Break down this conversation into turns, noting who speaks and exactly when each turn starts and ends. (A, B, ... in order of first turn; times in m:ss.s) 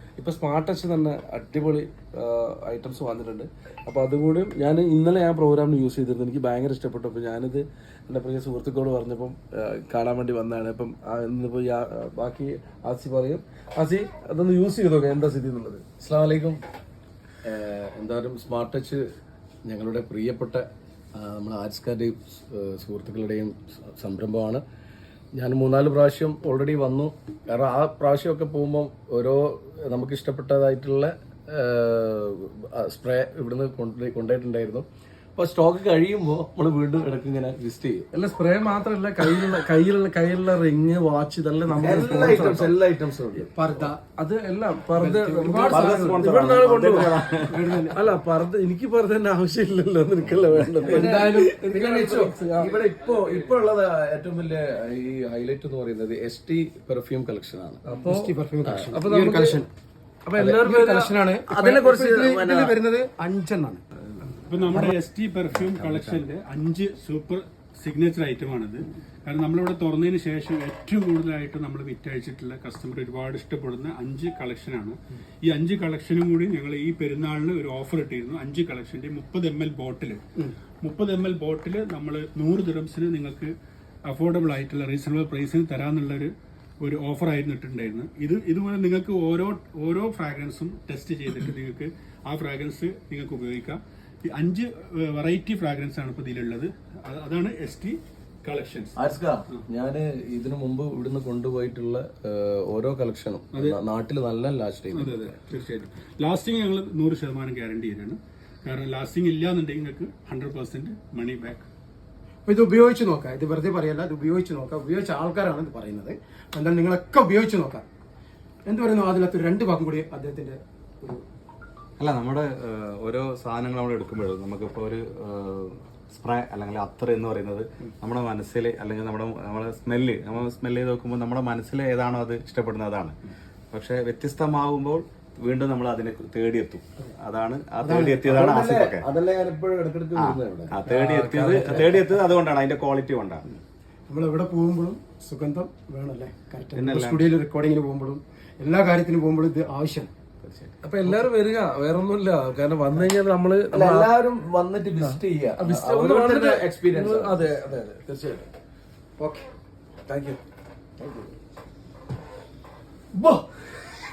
0:00.2-0:15.8 A
0:16.0-0:16.6 B
0:17.4-0:19.0 B
0:19.6-0:24.6 B
0:25.3-0:34.8 B
0:35.4-0:38.1 B
0:38.1-0:42.8 A
0:41.8-0:43.5 B
0:43.5-0:44.0 C
0:44.1-0:47.3 A
0:45.0-0:46.4 C
0:45.7-0:47.7 D
0:47.5-0:48.0 C
0:47.9-0:52.7 A
0:50.8-0:57.8 B
0:50.9-0:52.7 C
0:57.8-0:58.3 A
0:57.9-0:59.7 C
0:58.6-0:58.9 B
0:58.9-0:59.6 A
1:00.2-1:01.2 A
1:00.4-1:00.7 B
1:00.6-1:03.8 C
1:01.5-1:02.7 B
1:01.7-1:02.0 A
1:04.5-1:20.2 E
1:05.6-1:06.2 D
1:20.8-1:23.5 E
1:24.1-1:39.0 E
1:39.0-1:45.3 B
1:44.9-1:51.7 E
1:52.4-1:57.8 C
1:58.7-2:01.2 C
2:02.0-2:13.1 D
2:13.7-2:19.0 D
2:17.8-2:18.3 C
2:18.3-2:20.8 B
2:20.2-2:23.4 D
2:20.8-2:22.2 A
2:21.6-2:21.9 B
2:24.1-2:30.1 C
2:26.7-2:27.3 D
2:30.4-2:30.7 D
2:30.8-2:34.1 A
2:33.7-2:37.5 B
2:35.0-2:38.5 A
2:39.2-2:39.5 C
2:40.1-2:40.4 A
2:41.0-2:41.2 B
2:43.2-2:43.4 B